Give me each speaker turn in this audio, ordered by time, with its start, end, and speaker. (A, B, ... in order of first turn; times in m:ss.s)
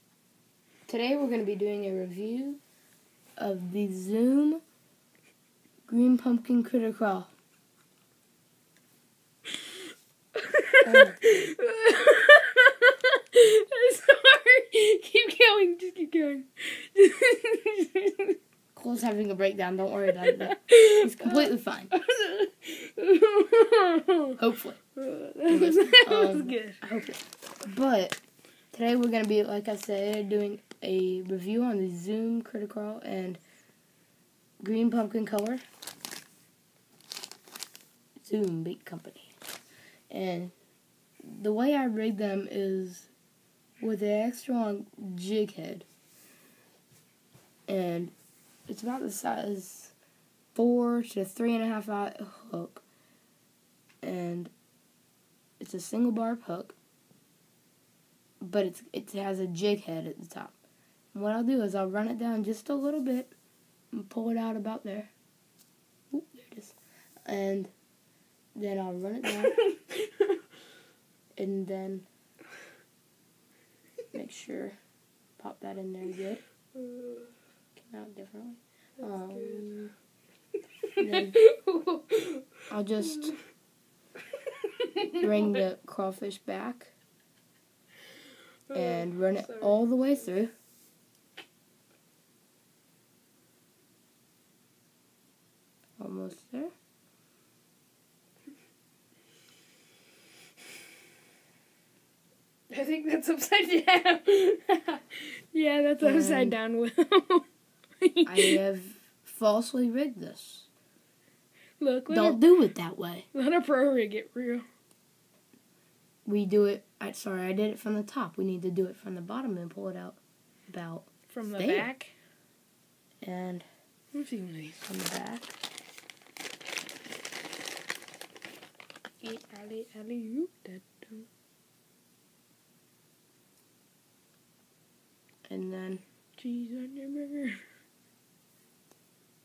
0:00.9-0:02.6 A
0:03.4-0:04.6 A
0:05.9-0:07.3 A
0:10.4-0:18.4 B
0:10.8-0:11.2 A
0:18.7-0:21.9 A
0:20.2-0:24.4 B
0:24.4-0:24.8 A
0:25.0-0:26.8 B
0:25.5-0:28.2 A
0:28.7-0:33.4 A
0:34.6-0:35.6 A
0:38.2-0:39.3 A
0:40.1-0:40.5 A
0:41.2-0:43.1 A
0:43.8-0:45.8 A
0:47.7-0:48.1 A
0:48.7-0:49.9 A
0:50.5-0:52.8 A
0:54.0-0:54.5 A
0:55.6-0:56.8 A
0:58.4-1:00.6 A
1:01.1-1:03.3 A
1:03.9-1:05.1 A
1:06.1-1:07.7 A
1:08.5-1:09.6 A
1:09.5-1:10.3 B
1:11.4-1:12.0 A
1:14.1-1:14.8 A
1:15.4-1:16.4 A
1:16.7-1:17.3 B
1:17.8-1:19.9 A
1:19.0-1:19.7 B
1:20.9-1:23.2 B
1:21.0-1:21.4 A
1:22.7-1:23.4 A
1:24.4-1:25.6 B
1:25.2-1:26.9 A
1:28.7-1:29.9 B
1:28.7-1:30.5 A
1:36.0-1:36.7 A
1:42.7-1:47.4 B
1:46.0-1:46.6 A
1:48.0-1:48.6 B
1:48.2-1:50.7 A
1:51.8-1:52.4 B
1:52.1-1:53.3 A
1:53.3-1:54.6 B
1:56.2-2:01.9 A
2:01.3-2:02.1 B
2:03.2-2:03.6 A
2:04.1-2:04.8 B
2:04.8-2:05.5 A
2:09.2-2:11.3 B
2:15.5-2:16.0 A
2:16.4-2:17.6 B